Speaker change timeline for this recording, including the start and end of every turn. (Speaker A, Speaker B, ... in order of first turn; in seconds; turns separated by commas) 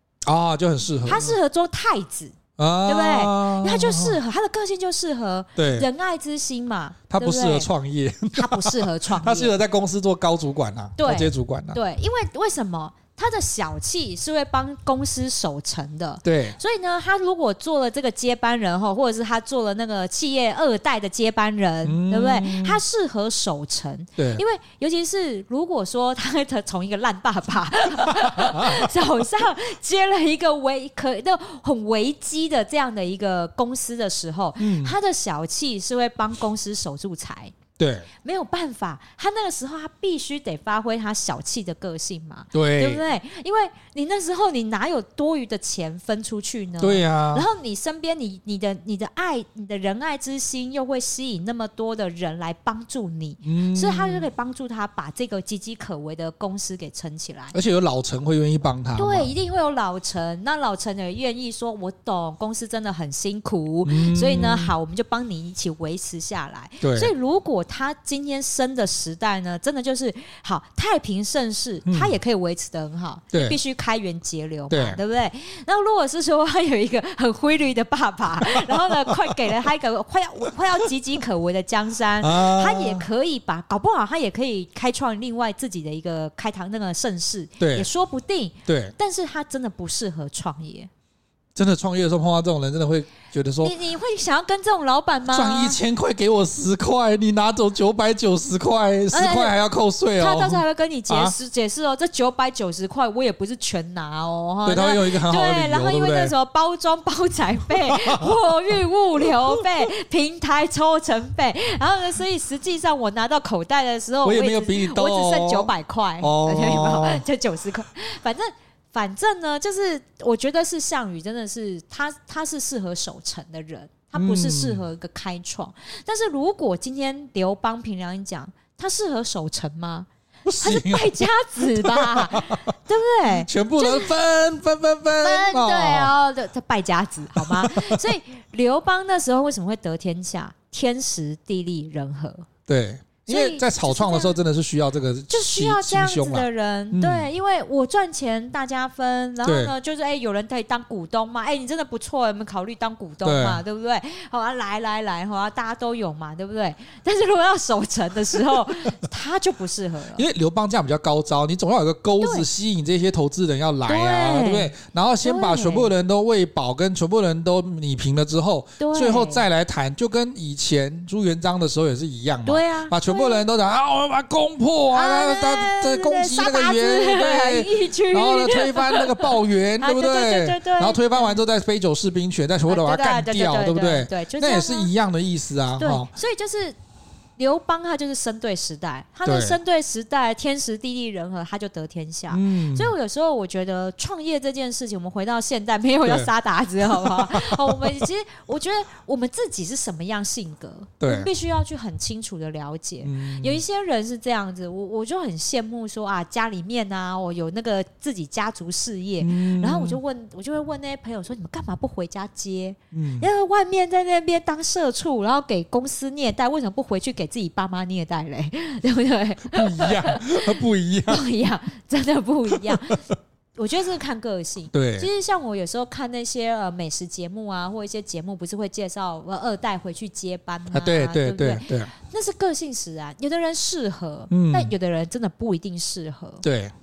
Speaker A: 0.2-1.4, Speaker B: 1.1-7.7, Speaker A: 2.6-4.2, Speaker A: 5.6-5.9, Speaker A: 7.1-11.8, Speaker B: 8.3-9.5, Speaker B: 11.0-37.5, Speaker A: 16.2-16.6, Speaker A: 21.8-22.8, Speaker A: 24.2-24.4, Speaker A: 28.1-28.9, Speaker A: 34.6-34.9, Speaker A: 37.8-38.1, Speaker B: 38.2-57.5, Speaker A: 42.5-43.0, Speaker A: 46.8-47.5, Speaker A: 53.4-54.2, Speaker A: 57.5-59.3, Speaker B: 59.0-90.9, Speaker A: 63.8-64.7, Speaker A: 66.8-67.1, Speaker A: 71.9-72.2, Speaker A: 73.3-73.6, Speaker A: 74.7-75.0, Speaker A: 78.6-79.1, Speaker A: 82.2-83.0, Speaker A: 87.6-87.9, Speaker A: 88.7-88.9, Speaker A: 91.5-93.7, Speaker B: 93.6-95.8, Speaker A: 95.3-101.3, Speaker B: 99.1-99.5, Speaker B: 100.2-130.1, Speaker A: 104.6-106.3, Speaker A: 107.9-108.3, Speaker A: 114.2-115.7, Speaker A: 116.2-117.2, Speaker A: 124.1-124.8, Speaker A: 130.4-132.7, Speaker B: 130.6-134.1, Speaker A: 133.3-136.1, Speaker B: 135.2-142.5, Speaker A: 137.3-138.0, Speaker A: 142.7-147.3, Speaker B: 143.2-144.4, Speaker B: 145.3-160.2, Speaker A: 149.4-149.7, Speaker A: 153.2-153.6, Speaker A: 160.2-186.1, Speaker B: 162.2-162.4, Speaker B: 163.8-165.9, Speaker B: 168.8-169.4, Speaker B: 172.4-173.4, Speaker B: 174.9-181.4, Speaker B: 182.7-184.9, Speaker B: 185.8-186.8, Speaker B: 187.4-223.0, Speaker A: 189.2-189.6, Speaker A: 192.3-192.9, Speaker A: 196.0-196.3, Speaker A: 196.8-198.0, Speaker A: 201.0-201.3, Speaker A: 203.0-203.6, Speaker A: 209.2-210.0, Speaker A: 212.9-213.3, Speaker A: 219.5-221.2, Speaker B: 223.6-236.4, Speaker A: 224.7-225.1, Speaker A: 230.7-231.9, Speaker A: 234.3-234.7, Speaker A: 236.4-236.7